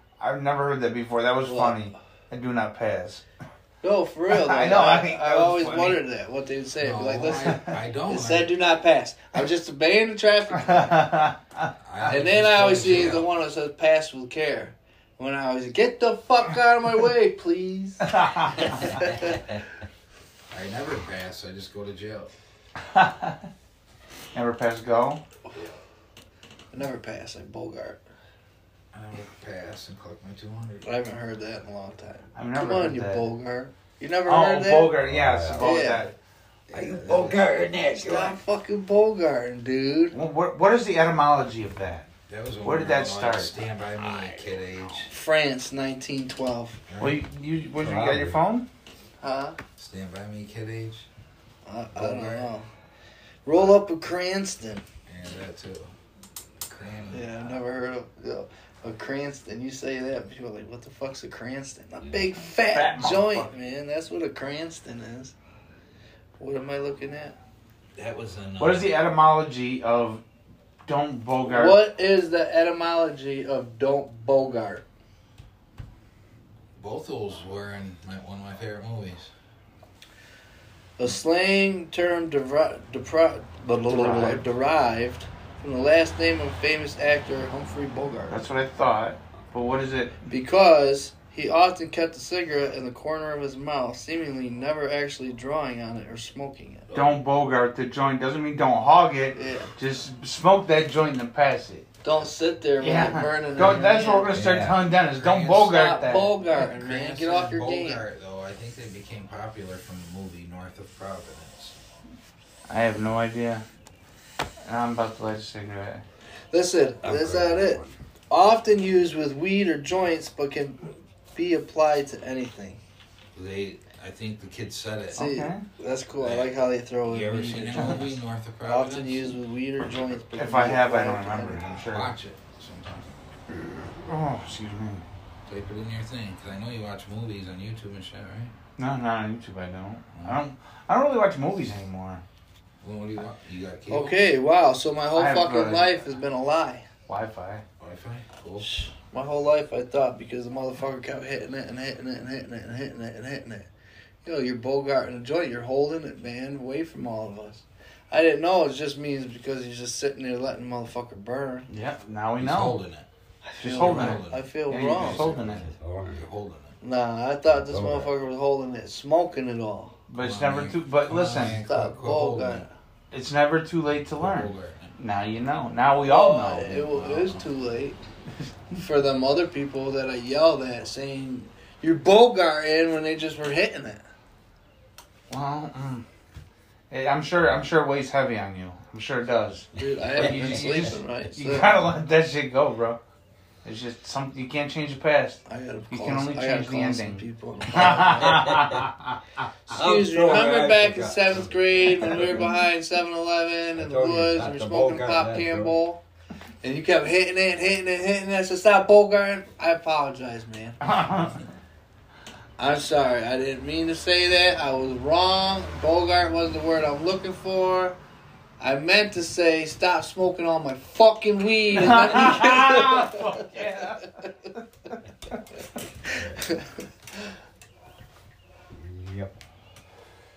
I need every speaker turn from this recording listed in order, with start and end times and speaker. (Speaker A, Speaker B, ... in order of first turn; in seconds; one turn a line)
Speaker A: 0.2-3.2
Speaker B: 1.4-1.8
Speaker B: 3.8-11.0
Speaker A: 4.3-6.0
Speaker C: 6.8-8.5
Speaker A: 10.6-11.7
Speaker C: 11.8-13.3
Speaker B: 12.1-19.4
Speaker A: 18.1-18.8
Speaker C: 20.5-22.3
Speaker A: 22.9-23.4
Speaker A: 24.3-25.2
Speaker C: 25.5-25.8
Speaker B: 26.7-28.0
Speaker C: 28.9-30.9
Speaker B: 30.8-35.0
Speaker A: 32.4-33.2
Speaker A: 34.3-36.1
Speaker D: 35.0-35.8
Speaker B: 35.6-36.1
Speaker D: 36.7-38.4
Speaker C: 36.7-37.5
Speaker B: 37.9-40.2
Speaker A: 40.1-42.1
Speaker C: 42.3-45.1
Speaker A: 42.6-43.6
Speaker B: 45.1-46.8
Speaker C: 46.9-47.2
Speaker A: 47.0-48.7
Speaker D: 47.8-48.4
Speaker B: 49.2-49.6
Speaker C: 49.8-51.1
Speaker B: 51.7-52.7
Speaker C: 51.9-52.5
Speaker B: 53.5-54.8
Speaker C: 55.1-55.9
Speaker C: 56.6-57.6
Speaker B: 57.1-65.3
Speaker A: 62.7-63.5
Speaker B: 66.4-67.4
Speaker C: 68.0-69.0
Speaker A: 68.6-70.2
Speaker A: 70.8-71.8
Speaker B: 71.5-74.8
Speaker C: 76.8-79.3
Speaker B: 81.0-88.4
Speaker A: 83.8-84.5
Speaker A: 88.3-90.2
Speaker B: 90.3-96.9
Speaker C: 96.9-97.2
Speaker A: 96.9-101.9
Speaker B: 99.3-99.7
Speaker B: 102.0-104.4
Speaker A: 102.8-106.4
Speaker C: 104.3-105.9
Speaker D: 104.3-104.8
Speaker B: 105.7-108.0
Speaker C: 106.5-111.8
Speaker A: 112.7-113.7
Speaker A: 114.6-116.0
Speaker B: 116.5-122.8
Speaker D: 117.0-118.0
Speaker C: 123.3-125.2
Speaker A: 125.1-125.6
Speaker B: 125.2-131.6
Speaker C: 126.2-129.4
Speaker A: 130.3-132.2
Speaker C: 131.9-133.1
Speaker A: 133.8-135.0
Speaker C: 135.5-138.5
Speaker A: 138.8-142.2
Speaker C: 140.1-140.4
Speaker C: 142.8-144.2
Speaker B: 143.9-146.9
Speaker A: 145.1-146.0
Speaker A: 147.1-147.6
Speaker C: 147.8-148.7
Speaker B: 148.6-153.7
Speaker B: 154.2-161.7
Speaker A: 161.7-162.8
Speaker C: 162.4-163.1
Speaker B: 163.4-165.3
Speaker A: 163.6-165.7
Speaker C: 163.6-166.8
Speaker D: 165.4-166.3
Speaker B: 166.8-170.0
Speaker D: 167.5-168.1
Speaker A: 170.1-171.6
Speaker C: 170.2-172.7
Speaker B: 171.5-172.7
Speaker A: 173.1-176.9
Speaker C: 174.2-174.9
Speaker B: 176.0-178.0
Speaker C: 176.8-177.5
Speaker B: 178.7-184.0
Speaker A: 185.3-186.1
Speaker A: 186.9-193.0
Speaker B: 189.8-191.7
Speaker D: 190.1-190.9
Speaker A: 193.6-199.2
Speaker B: 195.5-198.5
Speaker D: 197.8-198.9
Speaker D: 199.7-202.6
Speaker B: 199.7-206.0
Speaker D: 203.7-205.8
Speaker B: 206.6-210.8
Speaker A: 210.8-211.5
Speaker B: 212.6-218.0
Speaker B: 218.6-224.3
Speaker A: 221.8-224.2
Speaker D: 226.1-226.5
Speaker B: 226.4-226.7
Speaker D: 228.7-229.4